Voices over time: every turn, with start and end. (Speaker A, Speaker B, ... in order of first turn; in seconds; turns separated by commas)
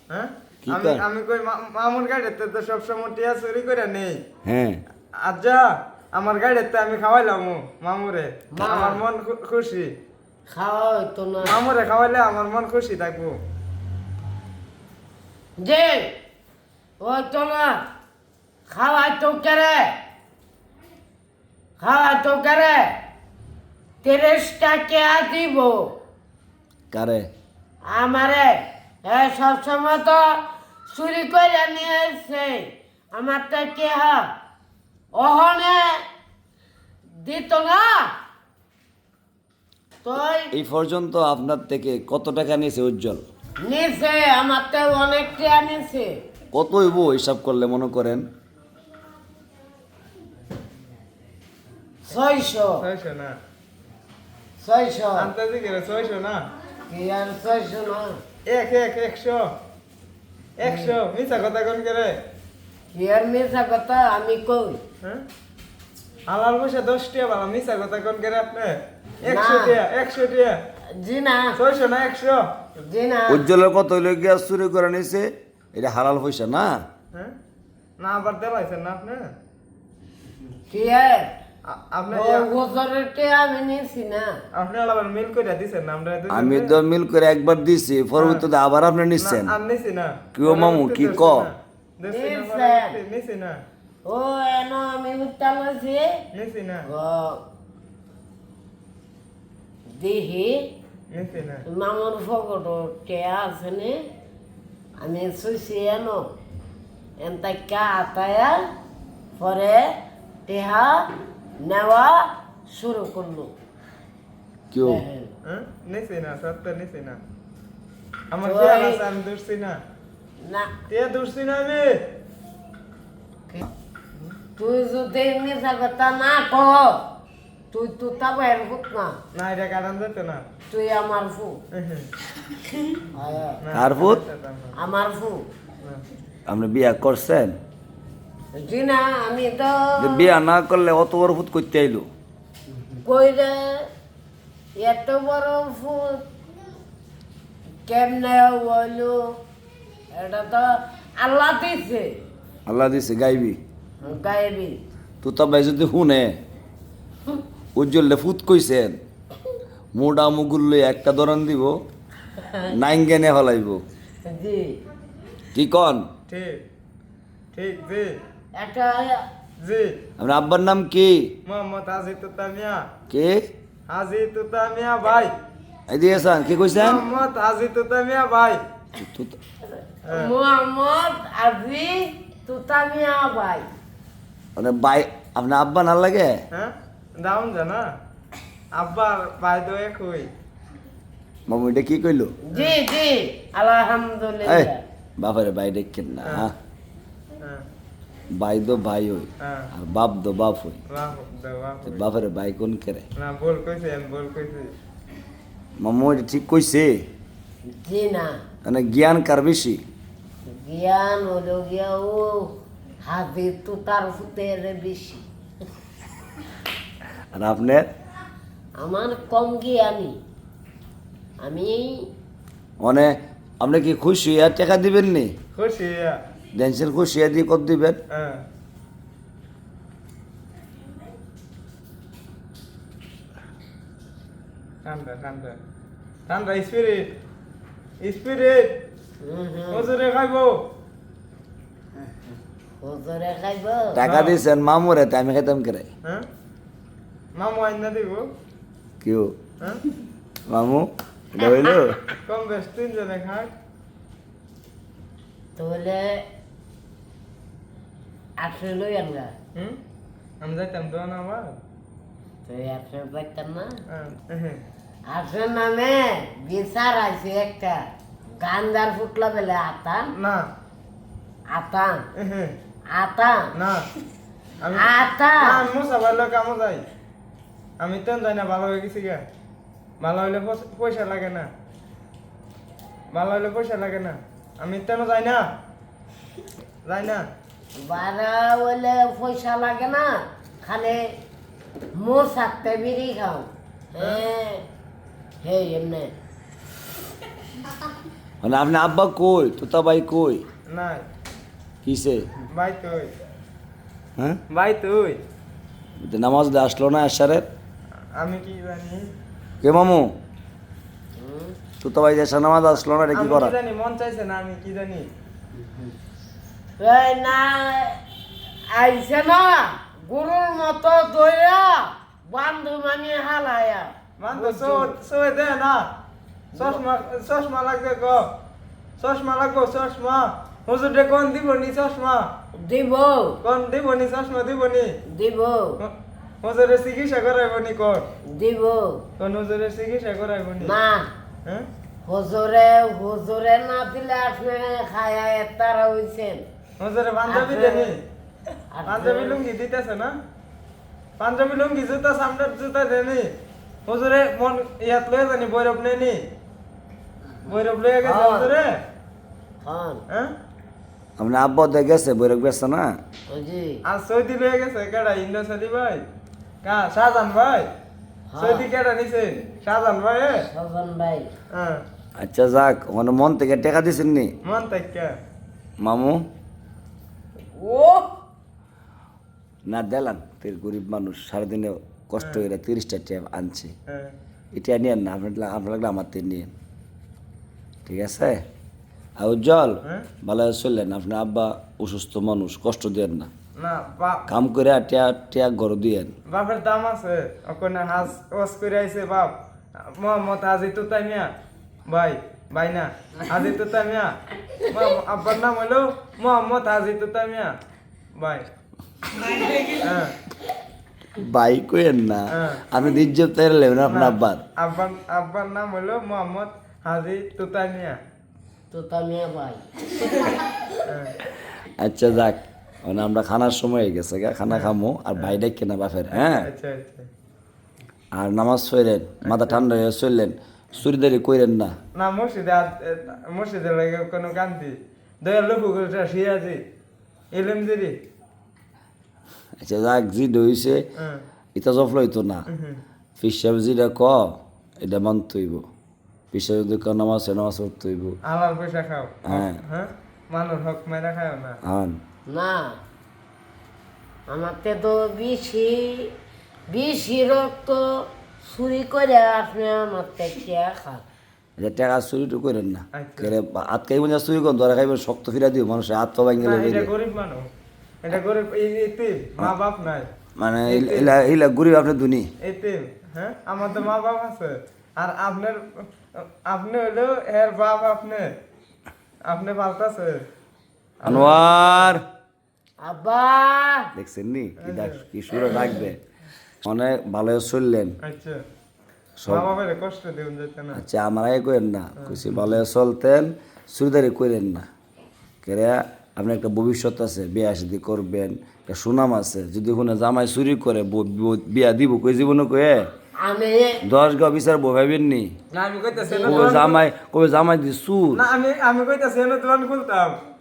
Speaker A: 0.1-4.2, Speaker B: 0.7-1.0, Speaker B: 4.4-4.8, Speaker A: 5.2-9.9, Speaker C: 8.5-9.0, Speaker C: 10.5-11.6, Speaker A: 11.4-13.4, Speaker C: 15.6-16.1, Speaker C: 17.0-17.8, Speaker C: 18.7-19.9, Speaker C: 21.8-22.9, Speaker C: 24.0-25.9, Speaker B: 26.9-27.3, Speaker C: 27.9-34.3, Speaker C: 35.1-36.0, Speaker C: 37.2-38.1, Speaker C: 40.0-40.5, Speaker B: 40.5-43.2, Speaker C: 43.6-46.2, Speaker B: 46.5-48.3, Speaker C: 52.1-52.9, Speaker A: 52.8-53.4, Speaker C: 54.6-55.3, Speaker A: 55.2-56.5, Speaker C: 56.9-58.2, Speaker A: 58.5-59.5, Speaker A: 60.6-62.2, Speaker C: 60.6-61.0, Speaker C: 62.9-64.8, Speaker A: 66.3-70.6, Speaker C: 69.3-69.8, Speaker C: 70.9-71.6, Speaker A: 71.6-72.4, Speaker C: 72.8-73.5, Speaker B: 73.3-76.8, Speaker A: 78.0-79.3, Speaker C: 80.7-81.3, Speaker A: 81.7-82.5, Speaker C: 82.1-84.4, Speaker A: 84.5-86.8, Speaker B: 86.3-89.5, Speaker A: 88.2-88.5, Speaker A: 89.2-93.6, Speaker B: 90.3-91.5, Speaker C: 92.1-93.0, Speaker C: 94.0-96.2, Speaker A: 96.3-96.9, Speaker C: 96.9-97.4, Speaker C: 99.9-100.7, Speaker A: 101.1-101.7, Speaker C: 101.7-104.1, Speaker C: 105.0-106.3, Speaker C: 107.2-108.7, Speaker C: 109.4-109.9, Speaker C: 110.5-113.5, Speaker B: 114.7-115.0, Speaker C: 114.8-115.3, Speaker A: 115.5-117.2, Speaker A: 118.3-119.8, Speaker C: 118.4-119.0, Speaker C: 120.4-120.7, Speaker A: 120.9-122.0, Speaker C: 124.6-127.1, Speaker C: 127.7-129.2, Speaker A: 129.3-130.4, Speaker C: 130.7-131.6, Speaker A: 131.7-132.1, Speaker C: 133.0-133.6, Speaker A: 133.6-134.7, Speaker B: 133.7-134.2, Speaker C: 134.8-135.5, Speaker B: 136.5-137.6, Speaker C: 138.5-140.3, Speaker B: 140.0-142.1, Speaker C: 143.0-143.9, Speaker C: 144.8-146.2, Speaker C: 147.8-149.4, Speaker C: 150.1-152.2, Speaker B: 152.7-153.6, Speaker C: 154.0-154.8, Speaker B: 155.2-156.3, Speaker B: 157.8-159.0, Speaker B: 159.9-161.8, Speaker C: 162.4-162.7, Speaker B: 162.7-163.8, Speaker C: 164.2-164.8, Speaker B: 165.5-166.1, Speaker A: 166.3-166.6, Speaker A: 167.5-168.2, Speaker C: 168.6-169.3, Speaker A: 169.6-170.0, Speaker B: 170.2-171.3, Speaker A: 171.5-172.9, Speaker B: 173.1-173.5, Speaker A: 173.9-175.3, Speaker B: 175.9-177.0, Speaker A: 176.8-178.6, Speaker B: 178.9-179.4, Speaker C: 180.1-183.7, Speaker B: 184.6-186.4, Speaker A: 186.5-187.9, Speaker A: 188.8-190.3, Speaker B: 191.5-192.3, Speaker C: 192.5-194.8, Speaker A: 192.5-192.8, Speaker B: 194.4-196.6, Speaker B: 198.3-200.8, Speaker A: 199.4-199.7, Speaker A: 200.9-202.1, Speaker B: 201.8-203.1, Speaker A: 203.2-204.7, Speaker B: 205.8-207.1, Speaker C: 207.7-208.4, Speaker B: 208.6-209.8, Speaker C: 210.5-212.5, Speaker C: 213.1-215.3, Speaker B: 217.3-217.8, Speaker C: 218.8-220.2, Speaker C: 221.4-222.1, Speaker B: 222.8-225.3, Speaker A: 225.5-226.2, Speaker B: 226.5-228.0, Speaker A: 228.1-228.4, Speaker A: 234.8-235.6, Speaker A: 236.3-237.1, Speaker A: 238.0-238.7, Speaker C: 239.2-239.9, Speaker A: 239.7-240.6, Speaker C: 242.8-244.0, Speaker B: 243.9-245.9, Speaker A: 244.0-244.4, Speaker A: 247.4-248.3, Speaker B: 249.0-249.3, Speaker B: 250.5-252.0, Speaker A: 252.3-253.5, Speaker C: 255.6-256.2, Speaker C: 258.4-259.3, Speaker A: 260.4-261.6, Speaker C: 262.5-263.8, Speaker A: 263.9-264.6, Speaker C: 265.1-267.9, Speaker C: 268.4-270.1, Speaker A: 270.2-270.5, Speaker C: 271.5-272.1, Speaker A: 272.2-272.6, Speaker C: 272.9-273.5, Speaker A: 273.6-273.9, Speaker A: 274.6-276.8, Speaker C: 274.8-275.6, Speaker A: 277.8-279.2, Speaker A: 280.0-281.5, Speaker A: 283.1-285.5, Speaker A: 286.9-287.3, Speaker C: 287.8-291.1, Speaker C: 291.9-294.6, Speaker C: 295.4-296.1, Speaker B: 298.4-300.4, Speaker A: 300.7-301.1, Speaker B: 301.8-302.3, Speaker A: 302.5-303.1, Speaker A: 304.5-305.2, Speaker B: 306.0-307.5, Speaker A: 308.2-309.1, Speaker B: 309.6-310.1, Speaker C: 311.2-311.6, Speaker B: 311.8-313.6, Speaker A: 313.1-315.1, Speaker C: 316.8-318.0, Speaker C: 318.7-324.9, Speaker A: 324.2-325.9, Speaker A: 326.5-328.3, Speaker A: 329.0-332.3, Speaker C: 332.6-333.4, Speaker A: 333.4-334.9, Speaker C: 335.1-335.8, Speaker A: 335.8-338.1, Speaker C: 338.3-339.1, Speaker A: 339.2-340.8, Speaker C: 340.6-341.1, Speaker C: 342.1-346.4, Speaker A: 346.8-348.0, Speaker C: 347.3-347.9, Speaker C: 348.7-349.4, Speaker A: 348.9-350.2, Speaker A: 351.2-353.3, Speaker A: 353.9-356.2, Speaker A: 357.4-358.8, Speaker C: 358.0-358.5, Speaker C: 359.6-360.0, Speaker B: 361.2-363.0, Speaker C: 363.3-363.8, Speaker A: 363.9-366.0, Speaker A: 366.6-367.7, Speaker C: 368.3-368.7, Speaker A: 368.4-370.5, Speaker C: 370.5-371.3, Speaker A: 371.5-371.8, Speaker B: 372.2-374.3, Speaker A: 374.4-375.1, Speaker B: 375.8-376.2, Speaker C: 377.5-378.1, Speaker B: 379.7-383.7, Speaker A: 382.2-382.4, Speaker A: 383.9-384.1, Speaker B: 384.5-386.5, Speaker B: 387.9-388.4, Speaker B: 389.2-393.3, Speaker A: 393.6-394.2, Speaker B: 394.3-396.1, Speaker A: 396.3-401.3, Speaker A: 401.9-404.2, Speaker A: 404.7-407.6, Speaker A: 408.2-408.5, Speaker A: 409.8-410.1, Speaker B: 411.1-414.4, Speaker A: 412.3-412.6, Speaker A: 413.9-418.0, Speaker C: 418.7-419.6, Speaker A: 420.9-421.1, Speaker B: 421.6-426.5, Speaker A: 424.5-425.4, Speaker A: 426.1-427.1, Speaker B: 428.1-431.8, Speaker A: 429.2-429.6, Speaker A: 431.9-436.6, Speaker A: 437.3-438.0, Speaker B: 439.6-440.9, Speaker A: 441.0-441.2, Speaker B: 441.6-442.5, Speaker A: 442.5-442.8, Speaker B: 443.2-445.7, Speaker B: 446.3-448.2, Speaker A: 448.2-451.6, Speaker B: 449.2-449.6, Speaker B: 451.6-452.0, Speaker C: 452.3-452.8, Speaker C: 454.3-456.1, Speaker C: 456.7-461.0, Speaker B: 461.6-466.9, Speaker A: 462.9-463.3, Speaker A: 466.4-467.5, Speaker A: 468.0-470.1, Speaker B: 470.4-472.3, Speaker A: 470.7-471.1, Speaker A: 472.4-478.3, Speaker A: 479.3-480.3, Speaker A: 481.0-482.0, Speaker B: 481.1-482.0, Speaker C: 482.8-483.9, Speaker B: 484.0-486.0, Speaker A: 484.6-485.1, Speaker B: 486.6-488.0, Speaker A: 488.0-488.4, Speaker B: 489.2-489.5, Speaker A: 489.3-490.8, Speaker B: 490.7-494.7, Speaker B: 495.4-502.9, Speaker C: 503.2-503.8, Speaker B: 503.9-505.4, Speaker A: 505.5-506.8, Speaker C: 506.0-506.6, Speaker B: 506.2-508.2, Speaker A: 508.1-510.2